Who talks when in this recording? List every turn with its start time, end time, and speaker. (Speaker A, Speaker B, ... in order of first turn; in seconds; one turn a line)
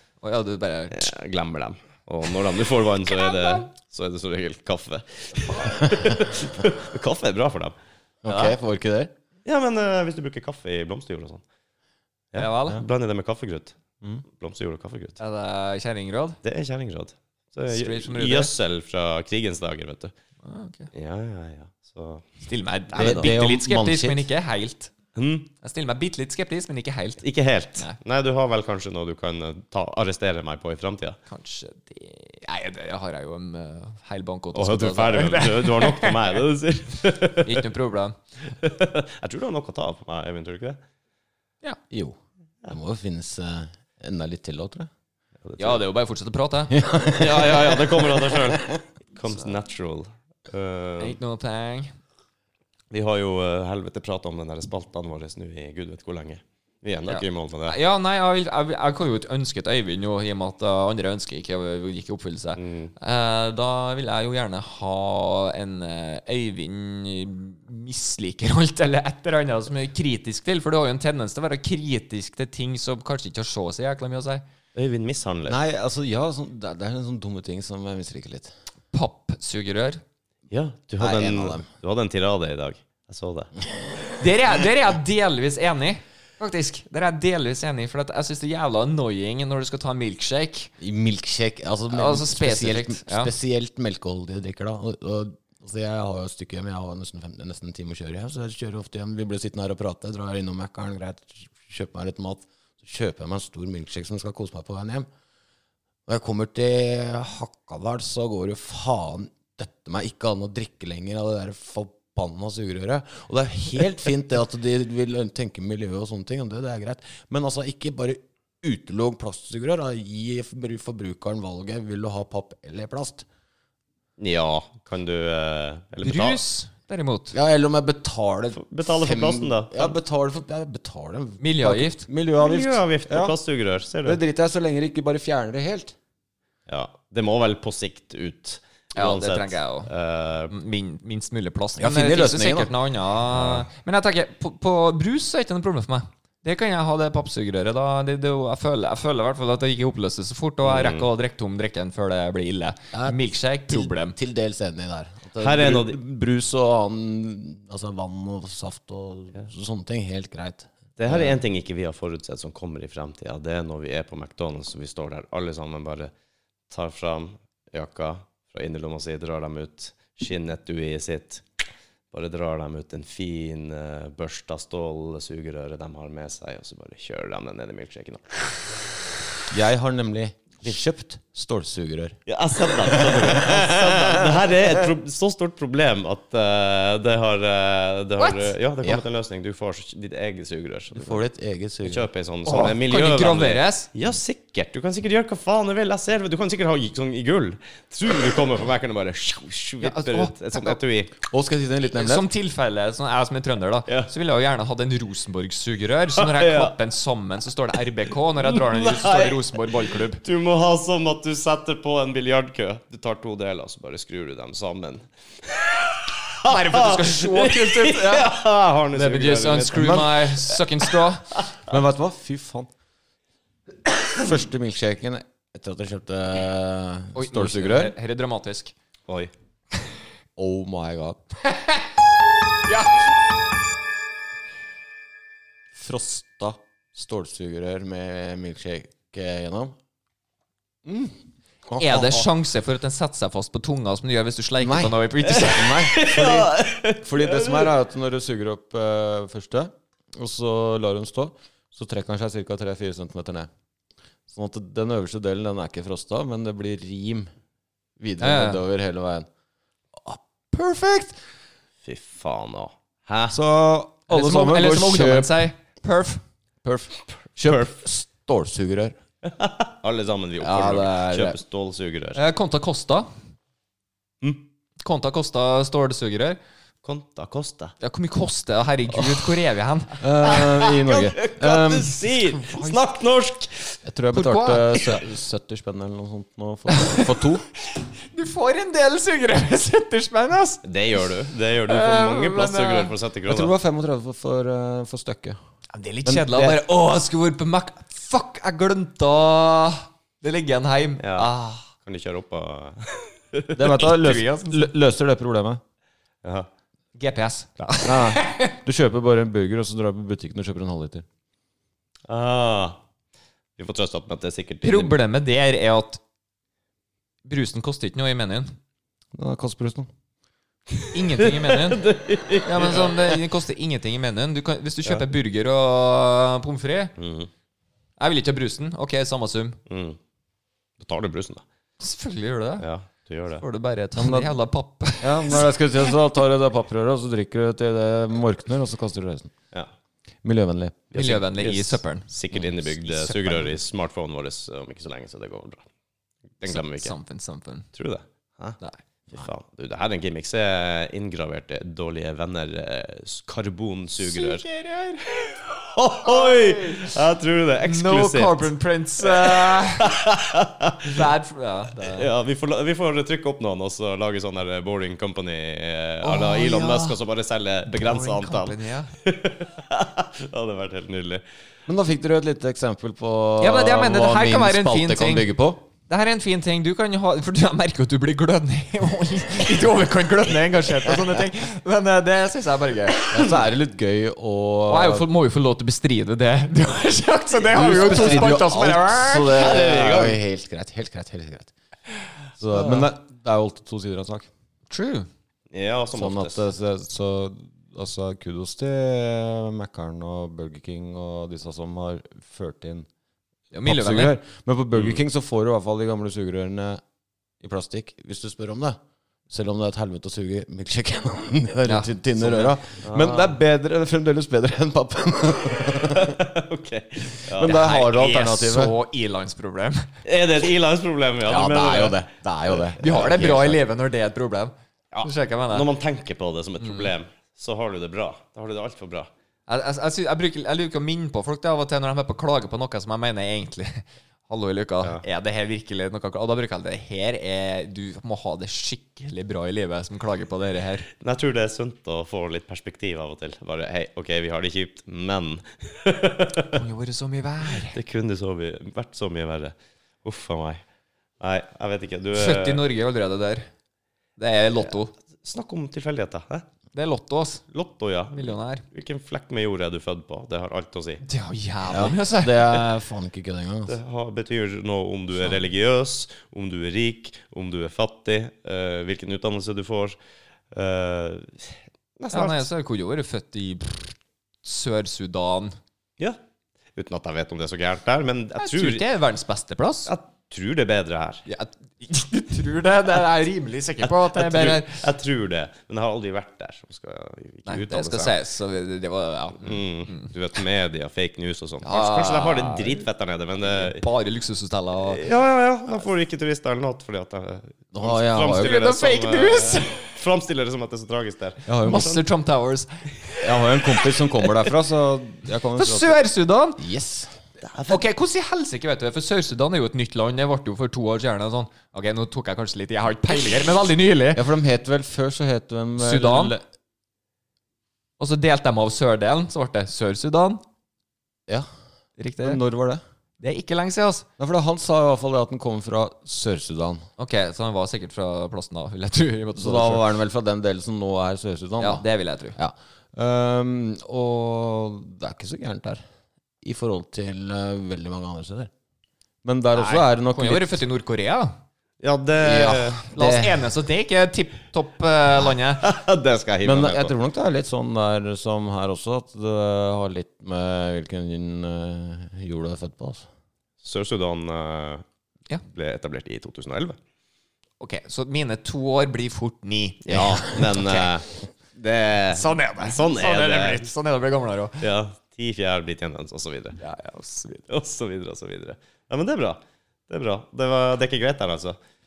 Speaker A: 0.2-1.1
Speaker B: 0.9-7.7
Speaker A: 3.1-3.7
Speaker C: 8.2-9.1
Speaker A: 8.3-8.6
Speaker B: 9.4-11.4
Speaker B: 12.3-13.8
Speaker A: 12.3-12.8
Speaker B: 14.3-15.2
Speaker A: 15.2-16.4
Speaker B: 16.4-20.1
Speaker A: 17.7-18.5
Speaker A: 20.4-20.9
Speaker B: 20.9-22.3
Speaker A: 22.4-24.9
Speaker B: 22.9-23.3
Speaker C: 22.9-24.2
Speaker B: 25.2-25.5
Speaker A: 25.6-27.2
Speaker B: 27.2-31.2
Speaker A: 31.3-36.4
Speaker B: 34.5-37.7
Speaker A: 37.4-38.2
Speaker B: 38.6-40.8
Speaker C: 41.9-44.9
Speaker B: 45.4-45.8
Speaker A: 45.6-46.8
Speaker C: 46.7-48.8
Speaker B: 47.1-51.2
Speaker A: 51.0-52.0
Speaker B: 52.9-57.8
Speaker A: 57.1-74.5
Speaker B: 62.6-62.9
Speaker B: 74.8-75.6
Speaker C: 75.5-78.5
Speaker A: 78.9-80.0
Speaker B: 80.5-83.5
Speaker C: 81.0-81.7
Speaker A: 84.2-90.7
Speaker C: 90.8-105.1
Speaker A: 91.9-93.3
Speaker C: 106.1-123.3
Speaker B: 124.2-126.4
Speaker A: 126.0-127.4
Speaker C: 127.3-133.3
Speaker B: 128.6-130.0
Speaker A: 131.4-132.1
Speaker B: 132.4-134.2
Speaker C: 134.1-136.0
Speaker B: 136.7-140.5
Speaker A: 138.9-139.9
Speaker A: 140.5-154.2
Speaker C: 141.8-142.7
Speaker B: 143.3-143.7
Speaker B: 150.7-151.1
Speaker C: 152.9-161.3
Speaker B: 155.4-156.0
Speaker B: 161.0-166.1
Speaker B: 166.7-171.4
Speaker B: 172.1-178.7
Speaker C: 179.5-184.5
Speaker B: 182.3-191.2
Speaker A: 188.2-188.5
Speaker C: 190.9-192.1
Speaker B: 191.8-201.1
Speaker A: 192.5-193.9
Speaker A: 199.8-200.8
Speaker C: 201.2-202.3
Speaker A: 201.9-210.2
Speaker B: 206.2-206.8
Speaker B: 208.4-209.4
Speaker B: 210.2-221.4
Speaker A: 216.4-218.3
Speaker A: 218.9-221.3
Speaker C: 219.7-220.2
Speaker C: 221.7-222.7
Speaker C: 224.1-227.9
Speaker A: 227.2-228.7
Speaker C: 230.4-231.2
Speaker A: 232.7-233.0
Speaker C: 235.7-239.7
Speaker C: 240.8-242.3
Speaker A: 241.8-245.9
Speaker C: 244.6-253.5
Speaker B: 245.4-247.7
Speaker C: 254.3-257.3
Speaker C: 258.0-259.3
Speaker A: 258.2-258.6
Speaker C: 260.0-261.2
Speaker B: 261.9-263.4
Speaker C: 263.3-265.3
Speaker A: 264.1-266.2
Speaker C: 266.6-269.0
Speaker B: 267.4-267.8
Speaker B: 269.2-272.2
Speaker C: 270.4-271.4
Speaker A: 272.1-273.1
Speaker A: 274.8-276.4
Speaker B: 276.8-277.8
Speaker A: 277.8-280.0
Speaker C: 280.0-282.8
Speaker B: 280.2-283.8
Speaker C: 283.9-287.4
Speaker A: 284.1-285.0
Speaker A: 286.7-287.1
Speaker A: 287.7-290.6
Speaker B: 290.6-293.5
Speaker A: 291.7-292.9
Speaker C: 293.3-295.4
Speaker A: 295.7-301.7
Speaker C: 296.1-296.6
Speaker B: 301.0-301.3
Speaker B: 301.8-303.8
Speaker C: 303.6-305.6
Speaker A: 303.7-304.7
Speaker B: 306.2-306.5
Speaker A: 306.9-308.5
Speaker C: 307.8-311.1
Speaker B: 312.1-312.8
Speaker B: 313.6-315.0
Speaker A: 314.6-316.0
Speaker A: 317.2-318.6
Speaker C: 319.1-319.9
Speaker B: 320.7-323.2
Speaker A: 320.9-321.9
Speaker A: 322.4-326.9
Speaker B: 327.0-327.3
Speaker A: 328.0-329.6
Speaker B: 329.7-330.0
Speaker B: 330.8-331.4
Speaker A: 331.8-332.7
Speaker B: 332.6-333.4
Speaker A: 333.4-335.5
Speaker C: 334.0-334.3
Speaker C: 335.0-339.3
Speaker C: 340.2-340.8
Speaker B: 340.9-345.6
Speaker A: 340.9-343.6
Speaker B: 346.4-346.9
Speaker A: 346.5-347.7
Speaker B: 347.7-354.4
Speaker A: 348.6-349.3
Speaker A: 354.0-355.1
Speaker B: 355.2-361.1
Speaker A: 356.0-356.9
Speaker A: 357.6-360.0
Speaker A: 360.9-362.1
Speaker B: 361.8-371.2
Speaker A: 366.0-367.0
Speaker A: 367.7-368.9
Speaker C: 371.7-375.6
Speaker A: 373.4-375.3
Speaker A: 375.9-383.1
Speaker C: 383.1-385.1
Speaker A: 384.7-389.7
Speaker C: 387.5-391.5
Speaker B: 387.6-388.4
Speaker B: 389.3-390.2
Speaker C: 392.4-394.3
Speaker A: 394.7-395.1
Speaker B: 395.5-396.4
Speaker C: 395.9-402.9
Speaker A: 403.5-404.1
Speaker C: 403.7-406.8
Speaker C: 407.4-408.8
Speaker C: 409.3-416.2
Speaker A: 411.7-412.5
Speaker B: 412.8-413.4
Speaker B: 415.9-417.6
Speaker C: 417.3-418.8
Speaker A: 417.4-419.9
Speaker B: 420.1-423.5
Speaker C: 421.2-423.6
Speaker A: 422.8-425.7
Speaker B: 424.9-429.1
Speaker A: 426.6-426.9
Speaker A: 429.5-440.9
Speaker B: 441.0-446.6
Speaker A: 446.5-447.8
Speaker B: 447.6-450.6
Speaker B: 451.2-452.6
Speaker A: 452.1-453.5
Speaker A: 454.2-454.9
Speaker B: 455.2-456.4
Speaker A: 456.7-457.4
Speaker B: 457.5-461.0
Speaker A: 458.1-458.6
Speaker A: 461.0-462.7
Speaker C: 461.7-463.8
Speaker B: 463.7-470.0
Speaker B: 470.5-472.5
Speaker A: 472.1-475.6
Speaker B: 476.8-478.8
Speaker A: 478.4-479.9
Speaker B: 479.9-481.2
Speaker A: 481.3-484.8
Speaker B: 483.8-488.2
Speaker A: 487.5-490.1
Speaker B: 489.4-493.8
Speaker A: 491.6-492.8
Speaker A: 493.4-495.0
Speaker B: 494.9-501.9
Speaker C: 497.7-498.6
Speaker A: 498.3-499.9
Speaker C: 501.5-502.0
Speaker A: 501.6-503.2
Speaker C: 503.2-506.0
Speaker A: 505.6-506.6
Speaker C: 506.6-507.2
Speaker B: 507.4-507.8
Speaker A: 507.7-514.2
Speaker C: 514.1-516.4
Speaker A: 515.8-516.4
Speaker A: 518.0-520.4
Speaker A: 522.0-522.4
Speaker C: 522.2-522.8
Speaker A: 523.2-524.1
Speaker C: 524.2-526.9
Speaker A: 527.0-530.0
Speaker C: 529.4-535.8
Speaker A: 531.6-532.4
Speaker C: 536.4-538.5
Speaker C: 539.2-540.6
Speaker A: 539.5-541.4
Speaker B: 541.8-542.9
Speaker C: 542.2-543.5
Speaker A: 542.9-545.6
Speaker B: 545.6-546.9
Speaker C: 546.4-553.1
Speaker B: 553.6-554.8
Speaker B: 555.5-556.8
Speaker A: 557.6-560.9
Speaker B: 559.9-563.7
Speaker A: 562.1-564.7
Speaker B: 564.6-566.6
Speaker A: 566.6-567.5
Speaker B: 567.5-571.6